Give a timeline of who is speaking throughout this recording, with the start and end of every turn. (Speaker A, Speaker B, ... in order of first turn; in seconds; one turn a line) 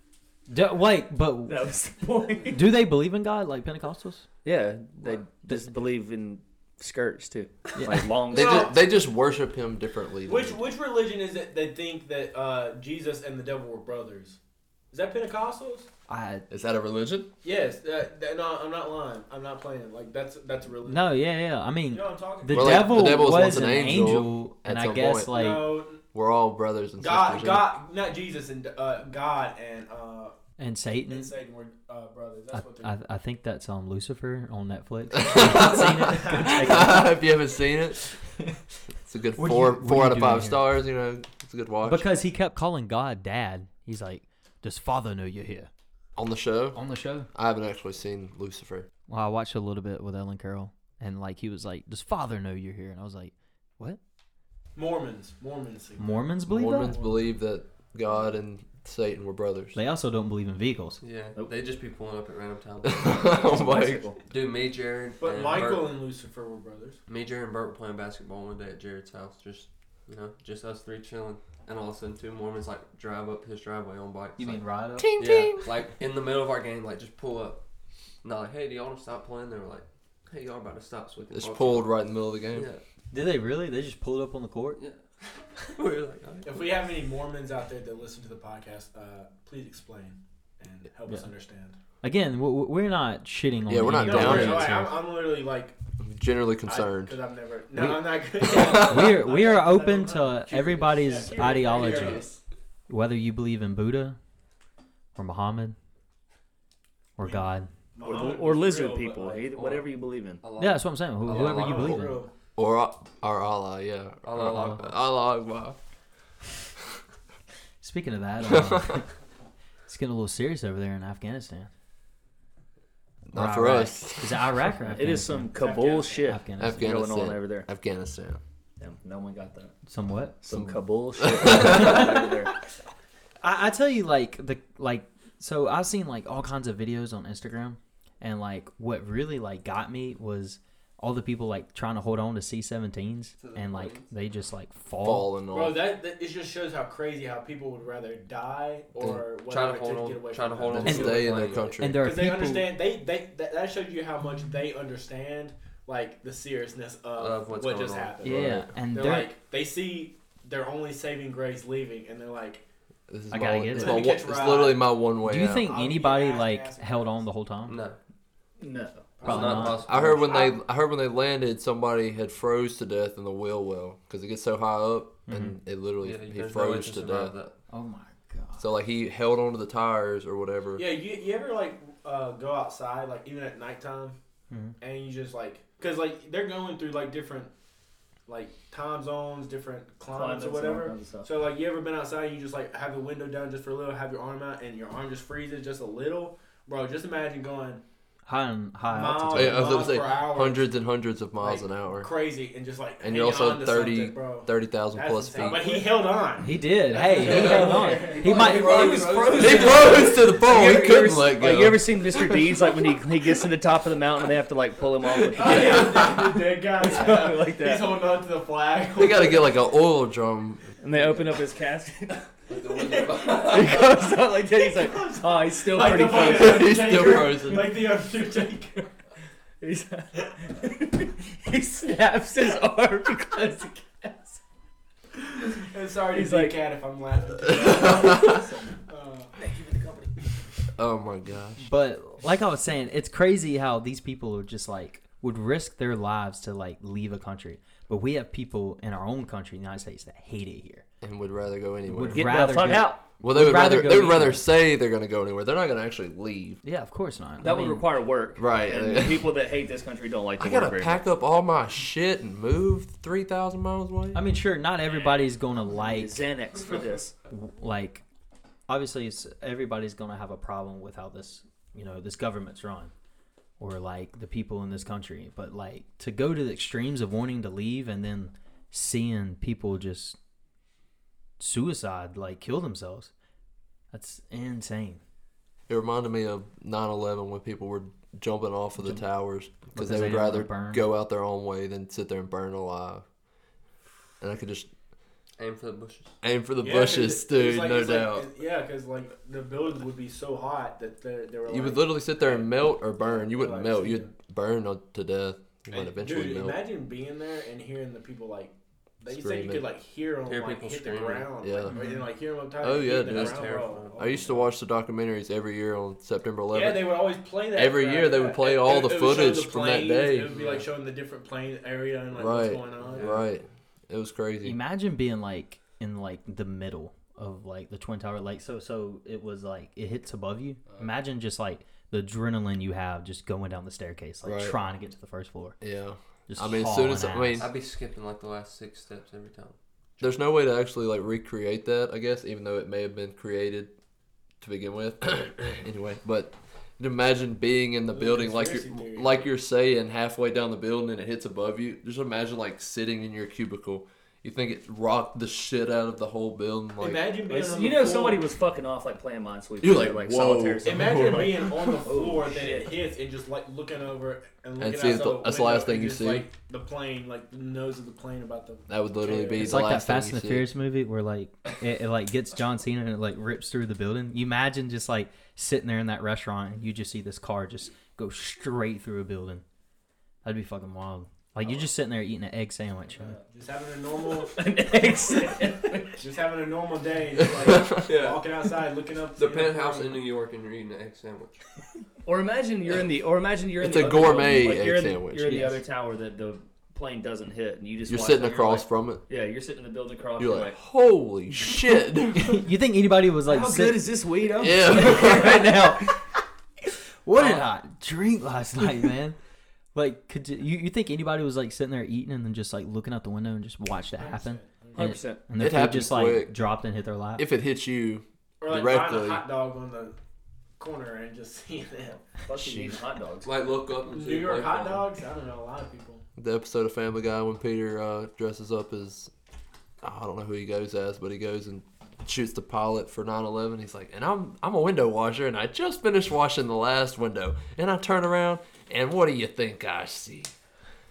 Speaker A: 0.5-1.7
Speaker B: 1.5-2.6
Speaker A: 2.5-4.3
Speaker B: 4.4-8.7
Speaker A: 7.8-8.1
Speaker C: 8.3-8.9
Speaker D: 8.3-10.6
Speaker C: 10.2-14.4
Speaker C: 14.9-15.9
Speaker A: 16.1-16.5
Speaker D: 16.5-17.3
Speaker C: 17.4-21.1
Speaker A: 20.9-25.8
Speaker C: 21.9-23.2
Speaker D: 22.5-25.4
Speaker C: 25.3-26.0
Speaker D: 26.1-27.7
Speaker C: 27.0-30.3
Speaker A: 30.6-31.3
Speaker C: 31.1-32.9
Speaker A: 32.5-37.2
Speaker D: 35.1-38.0
Speaker D: 39.0-42.1
Speaker A: 39.4-40.7
Speaker A: 41.8-45.7
Speaker D: 46.2-46.8
Speaker A: 46.7-47.3
Speaker D: 47.3-48.9
Speaker A: 49.1-54.0
Speaker C: 54.8-57.3
Speaker A: 56.0-57.0
Speaker D: 56.5-59.8
Speaker A: 59.8-61.0
Speaker E: 61.0-63.1
Speaker D: 62.8-64.1
Speaker B: 63.3-64.2
Speaker E: 64.3-65.9
Speaker C: 65.2-67.0
Speaker E: 67.1-74.6
Speaker A: 74.4-75.2
Speaker D: 75.0-75.7
Speaker E: 75.2-77.6
Speaker E: 78.2-81.9
Speaker D: 81.3-82.7
Speaker E: 82.5-82.8
Speaker A: 83.1-84.8
Speaker E: 85.7-86.8
Speaker C: 86.4-91.8
Speaker A: 92.0-95.0
Speaker D: 93.7-94.7
Speaker C: 93.9-95.8
Speaker D: 96.0-97.2
Speaker C: 96.7-102.4
Speaker A: 97.8-102.2
Speaker D: 98.4-99.2
Speaker A: 102.9-104.2
Speaker A: 105.1-105.8
Speaker A: 107.2-107.7
Speaker C: 107.9-109.5
Speaker B: 108.0-110.4
Speaker E: 109.6-109.8
Speaker E: 110.4-111.9
Speaker A: 110.6-112.2
Speaker C: 111.2-112.3
Speaker D: 112.6-115.8
Speaker E: 114.2-115.0
Speaker A: 117.8-119.1
Speaker D: 118.5-118.9
Speaker A: 119.9-121.7
Speaker D: 123.3-124.6
Speaker A: 123.3-125.5
Speaker B: 124.9-127.7
Speaker C: 125.5-126.4
Speaker A: 126.3-127.0
Speaker D: 126.6-128.4
Speaker B: 128.8-129.7
Speaker A: 129.9-130.8
Speaker B: 130.4-132.6
Speaker D: 130.5-132.1
Speaker A: 131.4-132.3
Speaker A: 133.4-145.3
Speaker E: 143.4-144.1
Speaker D: 145.0-145.9
Speaker C: 145.5-162.6
Speaker E: 149.5-151.7
Speaker D: 150.6-152.0
Speaker A: 150.8-151.2
Speaker A: 151.8-152.7
Speaker E: 157.2-158.1
Speaker A: 158.2-159.3
Speaker D: 158.2-158.7
Speaker D: 163.1-165.7
Speaker A: 163.3-164.1
Speaker C: 163.7-164.9
Speaker A: 165.2-167.8
Speaker C: 165.5-167.2
Speaker E: 167.7-168.0
Speaker B: 168.6-169.1
Speaker C: 169.2-170.5
Speaker E: 169.2-170.4
Speaker A: 169.2-169.8
Speaker D: 169.9-177.4
Speaker A: 175.3-175.6
Speaker E: 176.0-177.6
Speaker A: 177.7-178.7
Speaker D: 178.6-180.9
Speaker C: 180.8-184.2
Speaker A: 184.5-184.8
Speaker C: 184.8-187.5
Speaker C: 188.3-197.8
Speaker B: 190.1-191.3
Speaker A: 198.2-199.8
Speaker C: 198.9-200.7
Speaker D: 199.3-202.1
Speaker C: 201.4-210.1
Speaker D: 203.0-205.7
Speaker A: 206.4-209.9
Speaker D: 207.1-207.9
Speaker E: 207.3-207.6
Speaker B: 207.6-217.9
Speaker E: 208.1-210.2
Speaker D: 208.8-212.5
Speaker C: 215.2-219.5
Speaker D: 215.4-216.0
Speaker D: 218.9-220.7
Speaker B: 220.8-222.3
Speaker E: 222.5-223.9
Speaker C: 222.5-228.9
Speaker B: 223.3-227.8
Speaker D: 226.2-227.8
Speaker B: 229.6-234.4
Speaker C: 235.4-239.6
Speaker B: 236.1-236.6
Speaker D: 237.5-238.4
Speaker B: 238.1-238.8
Speaker B: 239.4-240.1
Speaker D: 240.8-241.7
Speaker A: 241.6-250.8
Speaker D: 251.0-252.3
Speaker A: 251.9-254.4
Speaker B: 252.1-253.1
Speaker D: 253.2-256.6
Speaker A: 256.6-257.9
Speaker B: 257.4-261.0
Speaker D: 258.4-259.3
Speaker D: 260.4-264.2
Speaker A: 264.1-266.2
Speaker B: 265.8-267.1
Speaker A: 267.3-268.0
Speaker A: 268.7-272.9
Speaker A: 273.6-280.2
Speaker A: 281.4-283.1
Speaker A: 283.9-285.0
Speaker D: 285.7-293.0
Speaker A: 288.8-289.1
Speaker A: 289.7-290.9
Speaker D: 294.2-294.7
Speaker E: 295.4-296.1
Speaker D: 296.2-298.3
Speaker C: 296.6-304.1
Speaker D: 301.5-306.6
Speaker C: 305.7-314.5
Speaker D: 309.1-309.6
Speaker E: 310.2-311.3
Speaker D: 311.4-311.8
Speaker A: 311.7-312.1
Speaker D: 312.6-313.5
Speaker E: 312.9-314.2
Speaker D: 314.0-317.0
Speaker C: 316.5-323.2
Speaker D: 317.5-320.4
Speaker E: 320.3-320.7
Speaker D: 322.1-324.6
Speaker E: 322.8-323.2
Speaker A: 324.4-335.6
Speaker D: 334.2-334.6
Speaker D: 335.6-337.5
Speaker A: 336.3-337.5
Speaker E: 337.4-340.1
Speaker D: 340.0-343.7
Speaker D: 344.4-357.1
Speaker C: 347.9-349.2
Speaker C: 356.8-358.2
Speaker B: 357.2-362.8
Speaker D: 359.6-361.8
Speaker C: 360.6-369.6
Speaker D: 364.6-366.3
Speaker D: 368.7-370.5
Speaker A: 369.4-379.4
Speaker A: 380.2-383.2
Speaker C: 383.0-384.4
Speaker B: 384.2-386.1
Speaker C: 386.0-390.0
Speaker D: 387.4-387.8
Speaker E: 387.5-388.5
Speaker E: 389.1-391.4
Speaker B: 392.0-400.6
Speaker D: 393.6-395.5
Speaker A: 395.2-395.6
Speaker D: 397.9-399.0
Speaker D: 400.2-402.4
Speaker A: 402.1-403.9
Speaker B: 403.2-405.5
Speaker D: 404.4-405.4
Speaker A: 404.5-406.1
Speaker A: 407.1-409.2
Speaker B: 407.2-407.4
Speaker A: 409.7-417.2
Speaker C: 414.0-414.9
Speaker B: 414.8-415.2
Speaker D: 415.4-416.4
Speaker D: 417.2-419.2
Speaker C: 418.4-420.0
Speaker C: 420.6-422.1
Speaker B: 422.2-423.3
Speaker D: 422.3-422.8
Speaker E: 423.2-424.9
Speaker C: 423.9-426.0
Speaker D: 426.2-429.1
Speaker D: 429.8-440.3